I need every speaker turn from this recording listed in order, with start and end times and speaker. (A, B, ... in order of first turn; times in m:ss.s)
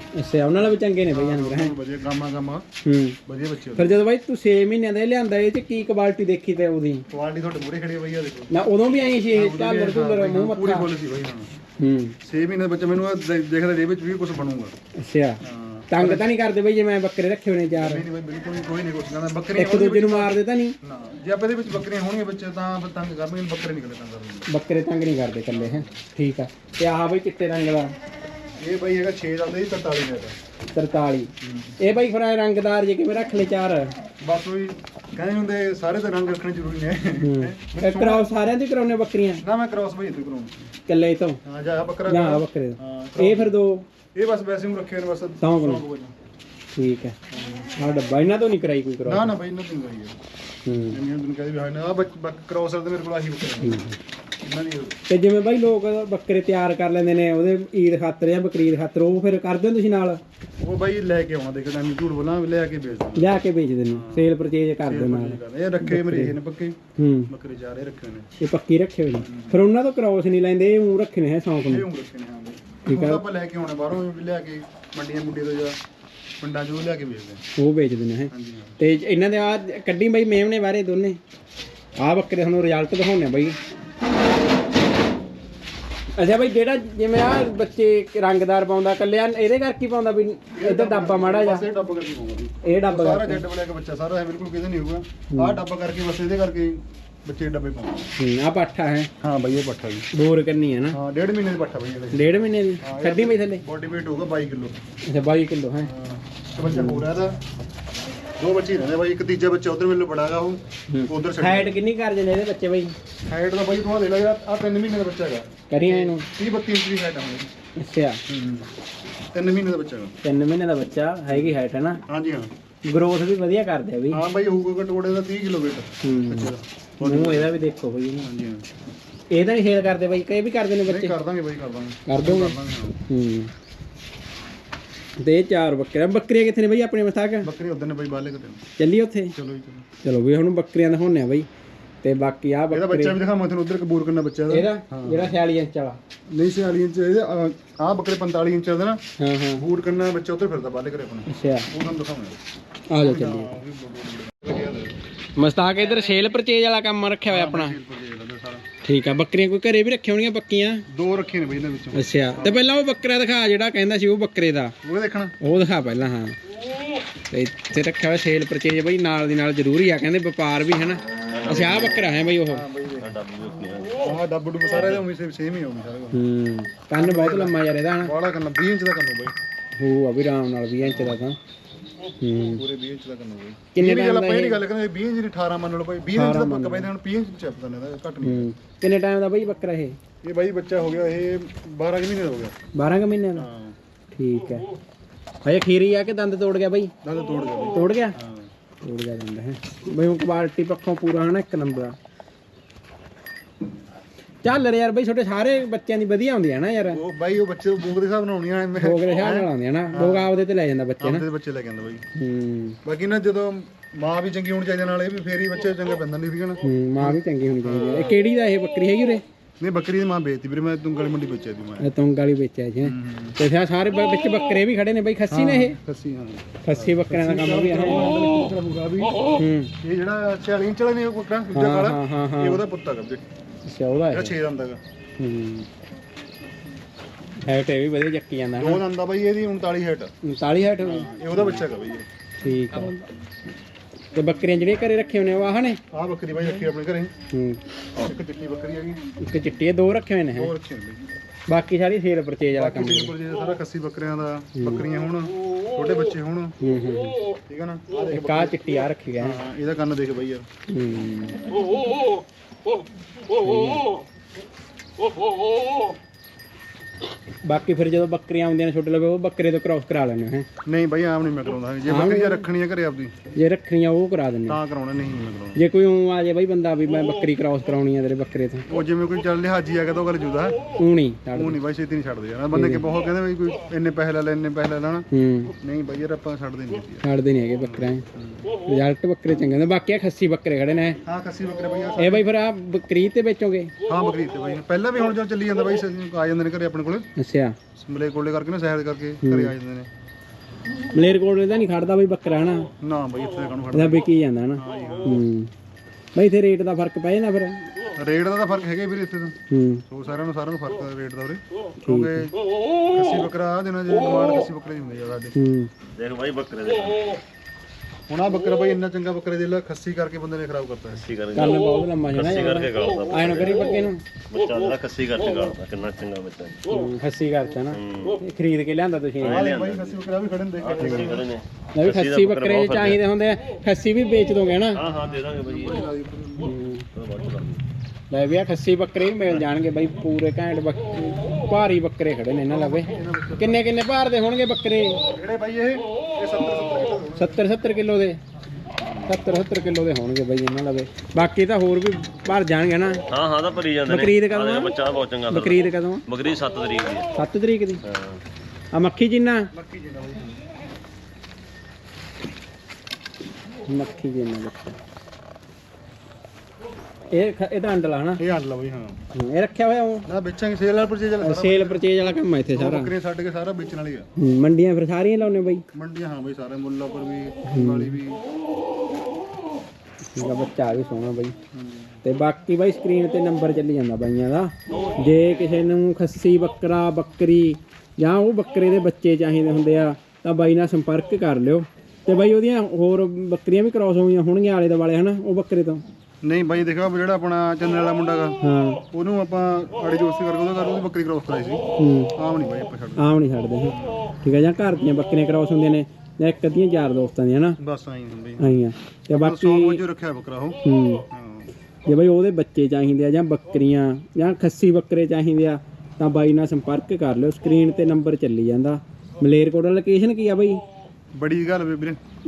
0:00.2-0:01.7 A
0:00.6-0:02.6 B
0:02.8-0:03.2 A
0:03.2-0:04.0 B
0:03.8-0:07.0 A
0:07.1-0:08.5 B
0:08.5-0:10.9 A
0:09.3-0:11.5 B
0:11.8-0:12.2 A
0:12.2-0:14.7 B
0:15.0-0:18.0 A
0:15.4-0:16.3 B
0:17.8-0:24.5 B
0:19.6-0:20.7 A
0:24.5-0:27.9 A
0:25.5-0:26.0 B
0:28.6-0:30.4 B
0:30.7-0:33.9 A
0:31.4-0:31.8 B
0:34.2-0:38.3 B
0:37.2-0:39.4 A
0:39.4-0:40.7 B
0:40.9-0:41.4 A
0:41.4-0:43.6 B
0:42.1-0:43.9 A
0:44.1-0:46.1 B
0:45.4-0:45.8 A
0:46.7-0:49.3 A
0:47.3-0:47.6 B
0:49.0-0:50.1 B
0:50.6-0:51.0 A
0:50.9-0:53.8 B
0:53.6-0:54.0 A
0:54.4-0:55.0 B
0:55.1-1:00.2 A
1:00.6-1:03.3 B
1:03.2-1:06.4 A
1:03.9-1:04.3 B
1:04.8-1:06.8 B
1:07.0-1:07.3 A
1:07.3-1:08.3 B
1:08.4-1:11.8 A
1:09.2-1:09.6 B
1:11.6-1:15.8 B
1:12.9-1:13.2 A
1:16.4-1:17.4 B
1:17.6-1:21.2 A
1:18.3-1:18.8 B
1:22.0-1:23.6 A
1:26.2-1:31.6 A
1:30.6-1:38.1 B
1:32.6-1:33.4 A
1:35.3-1:35.6 A
1:38.2-1:39.1 A
1:39.2-1:40.1 B
1:40.1-1:41.0 A
1:40.9-1:44.7 B
1:42.1-1:43.6 A
1:45.1-1:45.9 A
1:45.8-1:47.3 B
1:46.7-1:47.0 A
1:48.4-1:51.7 B
1:50.9-1:52.9 A
1:53.3-1:57.5 B
1:55.7-1:56.3 A
1:57.8-1:58.2 A
1:58.3-1:58.7 B
1:59.3-2:00.1 B
2:00.2-2:02.0 A
2:01.3-2:01.5 B
2:02.1-2:02.5 B
2:02.8-2:04.2 A
2:04.1-2:07.5 B
2:06.0-2:06.5 A
2:07.0-2:08.3 A
2:08.2-2:08.7 B
2:09.3-2:11.1 A
2:10.9-2:13.0 B
2:12.0-2:12.6 A
2:13.1-2:13.5 A
2:15.2-2:17.5 A
2:17.4-2:18.6 B
2:18.8-2:19.3 A
2:19.3-2:19.8 B
2:20.0-2:21.5 A
2:22.0-2:23.2 A
2:22.7-2:25.4 B
2:24.5-2:26.0 A
2:26.3-2:29.0 B
2:29.2-2:29.6 A
2:29.5-2:32.4 B
2:31.3-2:31.7 A
2:32.9-2:33.5 A
2:33.0-2:34.9 B
2:35.4-2:37.8 A
2:37.3-2:38.6 B
2:38.8-2:40.8 A
2:40.9-2:42.6 B
2:41.9-2:44.7 A
2:44.8-2:45.4 B
2:45.4-2:46.4 A
2:47.3-2:52.6 A
2:51.3-2:52.0 C
2:51.5-2:51.8 B
2:52.4-2:53.1 B
2:53.0-2:54.1 C
2:54.0-2:56.2 B
2:56.1-2:58.1 A
2:57.0-2:59.3 B
2:59.8-3:01.4 A
3:00.8-3:01.2 B
3:02.2-3:02.6 A
3:02.5-3:08.5 B
3:03.7-3:04.6 A
3:06.1-3:06.9 A
3:08.2-3:10.0 A
3:10.2-3:12.5 B
3:12.7-3:13.4 A
3:13.4-3:13.8 B
3:14.1-3:14.6 A
3:15.4-3:16.9 A
3:17.0-3:18.5 B
3:17.7-3:18.1 A
3:18.8-3:22.0 A
3:24.4-3:27.0 A
3:26.9-3:30.3 B
3:28.8-3:31.2 A
3:31.0-3:32.0 B
3:32.2-3:32.8 A
3:32.8-3:38.2 B
3:36.6-3:39.2 A
3:39.6-3:41.9 B
3:41.8-3:45.8 A
3:42.8-3:43.4 B
3:45.3-3:53.2 B
3:46.6-3:48.1 A
3:49.4-3:49.7 A
3:51.5-3:52.6 A
3:53.6-3:54.3 A
3:54.1-3:54.8 B
3:55.2-3:55.7 A
3:57.4-3:58.8 A
3:58.6-4:00.1 B
4:00.2-4:01.6 A
4:00.8-4:02.1 B
4:02.4-4:03.1 A
4:04.1-4:05.8 A
4:05.9-4:07.1 B
4:07.3-4:07.6 A
4:08.0-4:09.0 B
4:09.2-4:10.5 A
4:10.3-4:11.0 B
4:11.5-4:13.1 A
4:12.5-4:16.6 B
4:14.6-4:14.8 A
4:16.6-4:17.2 A
4:17.5-4:20.4 B
4:18.1-4:19.4 A
4:20.7-4:21.6 A
4:23.3-4:23.9 A
4:27.4-4:30.5 A
4:30.6-4:33.1 B
4:31.9-4:32.4 A
4:33.3-4:34.6 A
4:34.5-4:35.6 B
4:35.6-4:38.6 A
4:38.7-4:40.6 B
4:40.8-4:41.6 A
4:41.3-4:45.0 B
4:42.5-4:42.9 A
4:45.1-4:45.5 A
4:45.6-4:47.0 B
4:47.0-4:48.0 A
4:47.6-4:48.4 B
4:48.6-4:51.0 A
4:51.0-4:52.2 B
4:52.0-4:53.7 A
4:53.9-4:57.1 B
4:57.2-4:57.6 A
4:57.8-4:59.9 B
4:59.2-4:59.5 A
5:00.9-5:02.7 A
5:02.8-5:05.2 B
5:03.7-5:05.5 A
5:06.1-5:07.6 A
5:08.0-5:09.4 B
5:09.5-5:09.8 A
5:09.9-5:12.3 B
5:11.8-5:12.3 A
5:12.9-5:15.4 B
5:15.4-5:15.7 A
5:15.9-5:17.2 C
5:18.1-5:21.0 B
5:21.0-5:26.6 C
5:21.3-5:24.0 A
5:26.7-5:29.4 A
5:27.7-5:28.2 C
5:29.2-5:30.0 C
5:29.2-5:31.3 B
5:30.6-5:33.0 C
5:31.8-5:34.8 A
5:34.7-5:35.9 C
5:34.8-5:36.6 B
5:36.4-5:36.8 A
5:36.9-5:37.6 C
5:38.1-5:45.0 A
5:42.5-5:43.7 B
5:45.1-5:47.5 B
5:47.2-5:48.2 A
5:48.8-5:49.2 B
5:49.0-5:53.0 A
5:53.1-5:57.1 C
5:53.8-5:54.7 A
5:55.3-5:56.0 A
5:57.1-5:57.8 A
5:57.8-5:58.2 C
5:58.7-5:59.5 A
5:59.5-6:00.4 B
6:03.6-6:04.7 A
6:07.1-6:08.2 A
6:08.2-6:09.0 B
6:09.1-6:10.1 A
6:10.0-6:11.9 B
6:11.2-6:12.9 A
6:12.5-6:14.1 B
6:14.2-6:15.6 A
6:15.7-6:18.2 B
6:17.5-6:18.0 A
6:20.1-6:21.3 A
6:21.5-6:22.0 B
6:22.0-6:35.8 A
6:36.2-6:41.6 B
6:38.4-6:38.8 A
6:41.8-6:42.1 A
6:42.1-6:43.1 B
6:43.0-6:47.6 A
6:43.6-6:44.0 B
6:47.6-6:48.5 B
6:48.4-6:49.8 A
6:49.1-6:50.6 B
6:50.6-6:51.0 A
6:51.1-6:51.5 B
6:51.8-7:00.6 A
7:01.1-7:02.0 B